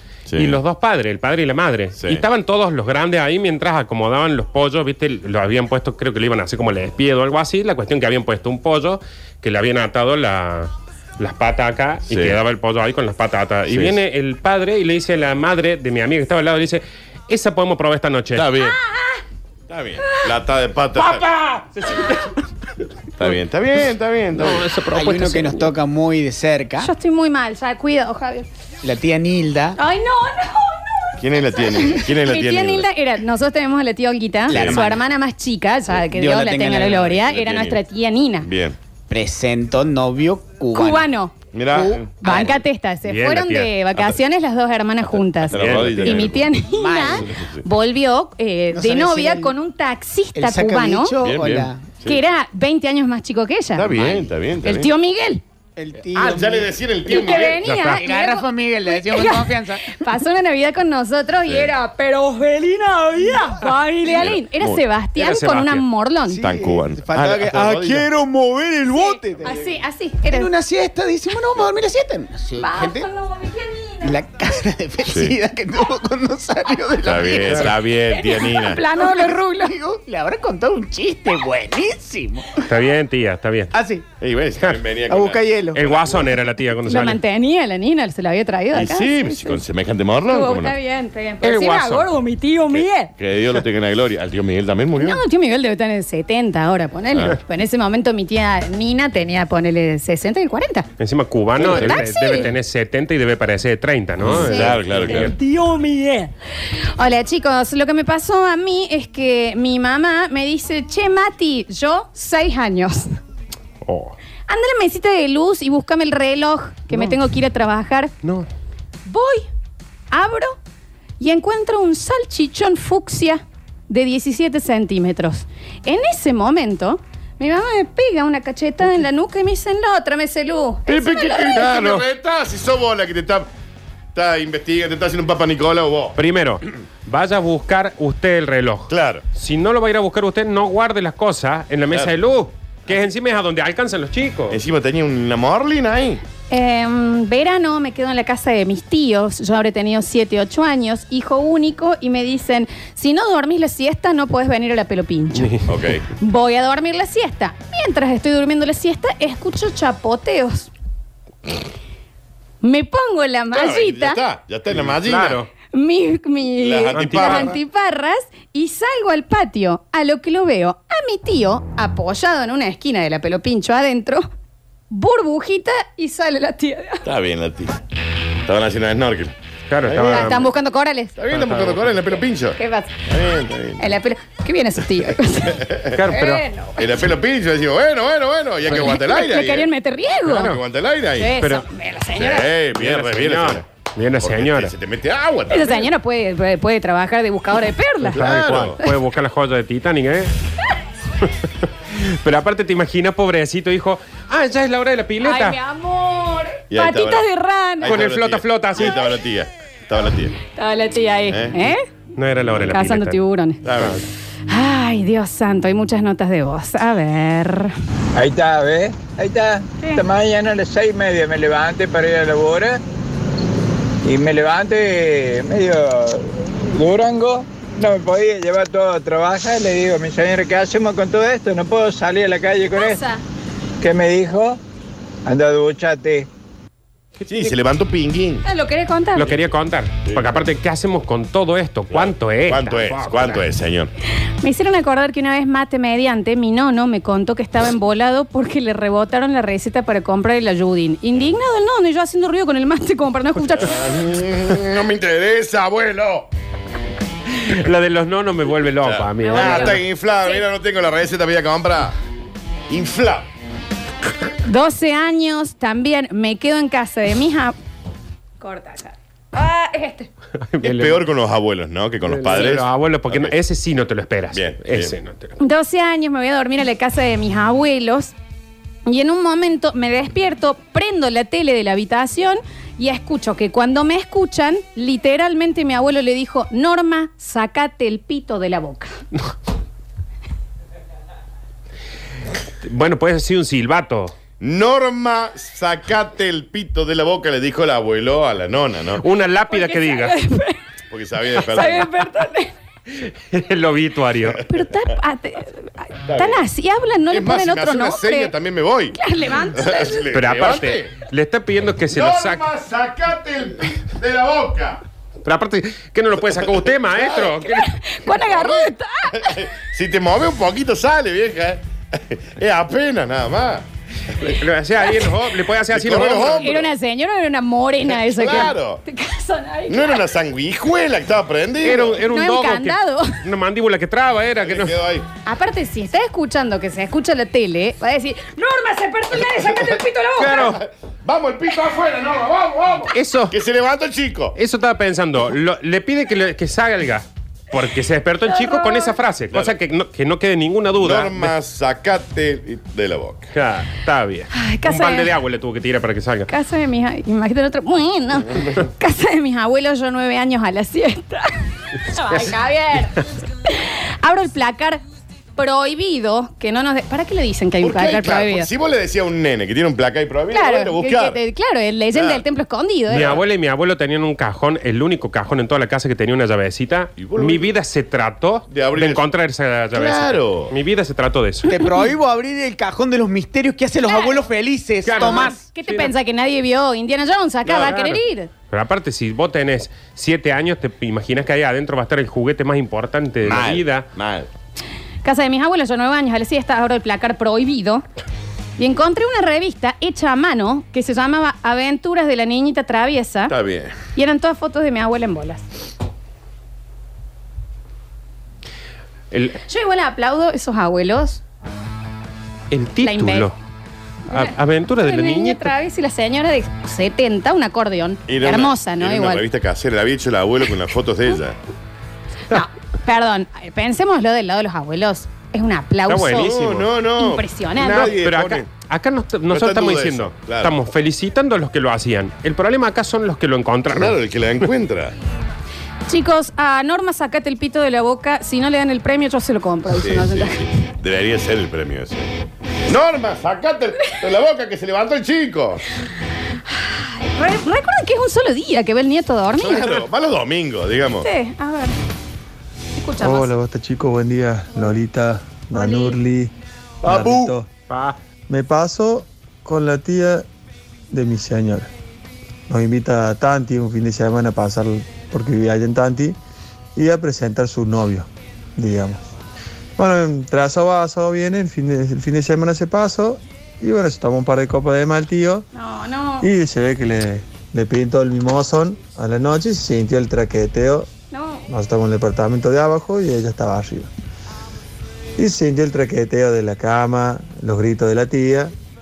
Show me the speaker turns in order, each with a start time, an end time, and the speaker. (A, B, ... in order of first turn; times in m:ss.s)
0:00.3-0:00.6 A
0:00.4-0:18.5 B
0:12.1-0:12.4 A
0:13.7-0:14.0 A
0:18.3-0:18.8 A
0:18.8-0:19.2 C
0:19.7-0:21.2 A
0:20.9-0:22.4 B
0:23.2-0:24.7 A
0:24.4-0:25.7 B
0:24.9-0:26.9 D
0:26.8-0:28.5 C
0:28.8-0:29.8 D
0:29.8-0:38.5 C
0:31.2-0:32.9 A
0:34.5-0:35.0 D
0:34.5-0:34.8 A
0:36.1-0:37.2 D
0:37.1-0:37.8 A
0:38.4-0:38.8 A
0:39.1-0:41.1 D
0:40.7-0:41.4 C
0:41.5-0:42.1 A
0:41.7-0:42.6 D
0:42.2-0:51.1 C
0:43.1-0:43.7 B
0:45.5-0:46.3 B
0:45.5-0:46.5 A
0:46.7-0:47.3 D
0:47.4-0:47.6 A
0:48.7-0:49.5 D
0:50.3-0:51.9 D
0:51.2-0:52.2 A
0:52.0-0:54.0 C
0:53.8-0:54.9 A
0:54.0-0:54.3 D
0:54.6-0:55.4 C
0:55.8-0:56.7 D
0:56.1-0:57.7 A
0:57.0-1:06.4 C
0:57.6-0:58.0 B
0:58.0-1:00.0 D
1:01.4-1:01.7 A
1:03.2-1:03.7 D
1:04.1-1:04.8 A
1:05.2-1:05.8 B
1:06.3-1:09.7 D
1:06.4-1:08.1 A
1:08.9-1:10.5 C
1:10.2-1:13.1 D
1:12.6-1:14.2 C
1:14.0-1:17.7 D
1:15.0-1:15.4 A
1:17.0-1:18.8 A
1:18.1-1:19.8 C
1:18.9-1:22.7 D
1:22.6-1:23.7 B
1:23.7-1:24.0 D
1:24.2-1:26.4 A
1:24.6-1:24.8 B
1:25.0-1:25.8 D
1:25.7-1:27.2 B
1:26.8-1:29.6 C
1:28.7-1:30.7 A
1:30.2-1:33.1 C
1:31.4-1:32.1 B
1:32.7-1:35.2 A
1:35.0-1:40.9 C
1:41.0-1:45.4 B
1:41.6-1:42.0 A
1:41.6-1:42.5 C
1:44.2-1:45.3 A
1:44.3-1:44.8 C
1:47.0-1:53.0 C
1:53.8-1:54.1 B
1:54.5-1:58.1 C
1:56.9-1:57.2 B
1:59.0-1:59.4 C
2:00.1-2:00.6 C
2:01.2-2:11.7 C
2:10.9-2:13.5 A
2:11.6-2:12.0 B
2:14.1-2:16.2 A
2:16.2-2:24.6 B
2:18.9-2:19.2 A
2:24.5-2:26.2 A
2:26.5-2:35.6 C
2:35.4-2:35.6 B
2:35.7-2:36.0 A
2:36.2-2:40.7 C
2:42.6-2:44.2 C
2:43.5-2:45.4 A
2:45.0-2:45.5 B
2:45.7-2:54.2 C
2:46.6-2:47.6 A
2:46.9-2:47.6 B
2:54.9-2:57.0 C
2:57.0-2:57.8 A
2:58.4-2:59.3 A
2:59.7-3:00.4 B
2:59.8-3:00.4 A
3:00.0-3:01.2 C
3:01.2-3:02.6 A
3:01.3-3:02.0 B
3:02.6-3:03.0 C
3:03.1-3:03.8 A
3:03.8-3:07.1 C
3:05.5-3:06.0 A
3:05.9-3:06.4 B
3:06.8-3:09.7 A
3:08.7-3:09.0 B
3:08.8-3:10.5 C
3:10.2-3:10.6 B
3:10.4-3:11.3 A
3:11.2-3:12.4 C
3:11.4-3:11.6 B
3:12.1-3:13.6 A
3:12.2-3:14.7 B
3:14.2-3:15.9 A
3:15.5-3:18.2 C
3:18.1-3:20.3 B
3:18.2-3:18.8 A
3:21.2-3:25.6 B
3:25.2-3:28.0 C
3:26.7-3:27.2 A
3:27.8-3:30.4 A
3:27.8-3:29.0 B
3:28.8-3:29.2 C
3:30.5-3:31.8 C
3:31.3-3:31.7 A
3:32.2-3:33.2 B
3:32.6-3:33.6 C
3:33.6-3:34.0 A
3:33.8-3:34.0 B
3:34.5-3:37.7 C
3:38.2-3:42.8 E
3:39.8-3:40.0 C
3:44.1-3:46.2 E
3:46.8-3:53.0 E
3:52.7-3:53.2 C
3:53.8-3:54.6 E
3:55.2-3:56.2 E
3:57.2-3:57.5 B
3:57.3-3:58.4 A
3:58.4-3:59.3 C
3:59.2-4:03.4 B
3:59.2-3:59.5 A
4:00.0-4:00.4 A
4:01.9-4:03.9 A
4:04.4-4:13.9 C
4:13.7-4:16.3 A
4:17.4-4:19.8 B
4:18.8-4:21.9 A
4:19.2-4:20.4 C
4:22.7-4:23.3 A
4:24.4-4:27.5 C
4:28.4-4:30.1 C
4:30.5-4:31.0 B
4:30.6-4:33.3 A
4:32.0-4:35.3 B
4:34.3-4:34.9 A
4:35.4-4:38.1 C
4:38.8-4:48.9 C
4:52.6-4:54.1 B
4:54.4-4:59.0 A
4:59.0-5:00.1 B
4:59.5-5:00.6 C
5:00.9-5:01.9 A
5:01.5-5:02.5 C
5:02.9-5:04.4 B
5:04.5-5:08.3 C
5:06.1-5:06.4 A
5:07.1-5:10.9 A
5:08.9-5:10.1 C
5:10.1-5:12.4 B
5:11.9-5:14.8 A
5:15.2-5:17.8 B
5:17.4-5:19.4 C
5:18.0-5:23.6 A
5:24.2-5:26.7 B
5:25.7-5:26.6 A
5:26.1-5:30.1 C
5:27.9-5:28.8 A
5:29.7-5:32.0 A
5:31.6-5:34.8 B
5:32.1-5:33.2 C
5:34.4-5:35.0 A
5:35.2-5:40.4 C
5:39.4-5:39.7 A
5:40.2-5:40.6 B
5:40.2-5:44.4 A
5:42.9-5:43.4 B
5:44.3-5:51.3 B
5:48.3-5:48.9 C
5:50.8-5:53.3 A
5:53.3-5:56.3 B
5:54.3-5:55.1 C
5:56.3-6:01.3 C
6:01.8-6:04.8 C
6:05.4-6:08.5 C
6:07.6-6:11.2 A
6:10.3-6:13.1 C
6:11.9-6:12.2 A
6:12.9-6:13.2 A
6:12.9-6:21.5 B
6:17.0-6:17.5 A
6:18.5-6:19.1 A
6:19.7-6:20.5 A
6:21.5-6:25.4 D
6:23.8-6:24.3 C
6:24.8-6:25.8 B
6:25.0-6:28.3 C
6:27.5-6:27.8 A
6:27.5-6:33.9 B
6:33.2-6:34.3 A
6:35.0-6:37.8 C
6:38.6-6:43.3 C
6:43.3-6:43.8 A
6:43.9-6:45.4 C
6:49.1-6:49.4 B
6:49.5-6:51.2 C
6:52.5-6:53.3 B
6:52.8-6:53.3 C
6:54.1-6:59.2 C
6:54.1-6:55.5 B
6:58.1-7:01.4 A
7:02.3-7:06.3 C
7:05.9-7:06.7 B
7:06.2-7:08.4 A
7:07.0-7:08.0 C
7:07.6-7:14.0 B
7:09.3-7:10.5 A
7:13.7-7:14.9 A
7:15.9-7:20.4 C
7:19.8-7:25.6 A
7:26.5-7:29.8 C
7:29.3-7:31.1 A
7:31.0-7:31.7 C
7:32.8-7:33.3 C
7:33.0-7:36.3 F
7:35.5-7:36.0 C
7:36.8-7:37.5 F
7:36.8-7:38.0 B
7:38.3-7:40.2 F
7:40.9-7:41.7 F
7:42.5-7:46.2 F
7:46.8-7:49.0 F
7:49.8-7:55.4 F
7:55.5-7:56.3 C
7:56.2-8:00.9 F
8:01.1-8:01.4 C
8:01.5-8:03.9 F
8:05.2-8:08.5 F